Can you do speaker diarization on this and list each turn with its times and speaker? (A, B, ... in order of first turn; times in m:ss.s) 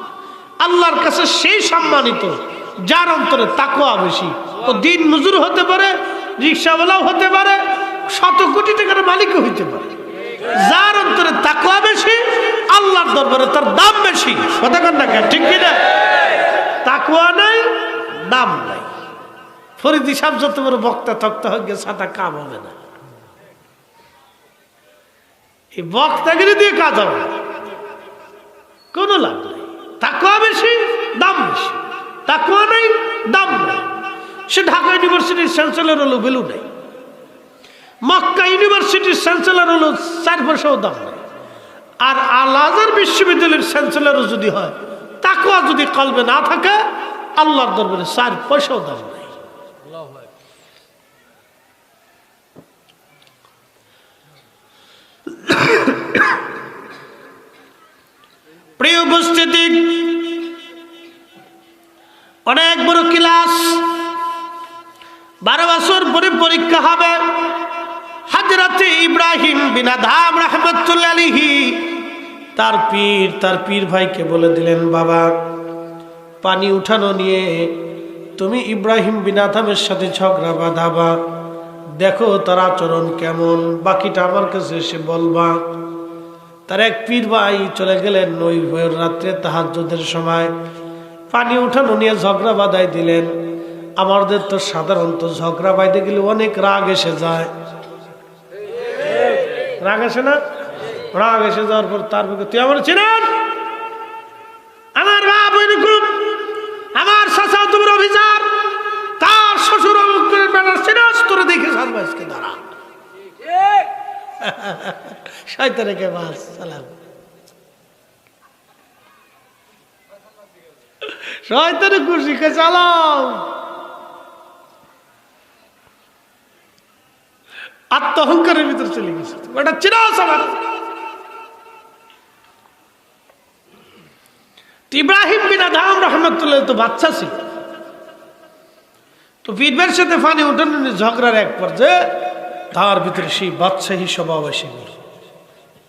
0:00.6-0:09.9 A
0:10.5-0:15.9 A
0:16.8-0:18.9 A
0:19.8-0:22.7 A
0:25.7-0:27.4 A
0:28.9-0:33.9 A
0:34.5-0:36.7 A
0:38.0-0:41.2 A
0:42.0-0:49.3 A
0:55.4-0:56.2 A
0:58.8-1:00.4 A
1:02.5-1:03.9 A
1:05.4-1:07.6 A
1:08.3-1:15.4 A
1:16.4-1:21.2 A
1:22.0-1:25.8 A
1:26.7-1:30.6 A
1:31.3-1:33.4 A
1:34.0-1:37.5 A
1:39.8-1:40.4 A
1:41.1-1:43.5 A
1:44.9-1:46.4 A
1:46.9-1:52.6 A
1:54.4-1:56.9 A
2:01.0-2:03.6 A
2:07.9-2:10.6 A
2:14.9-2:17.4 A
2:19.4-2:25.0 A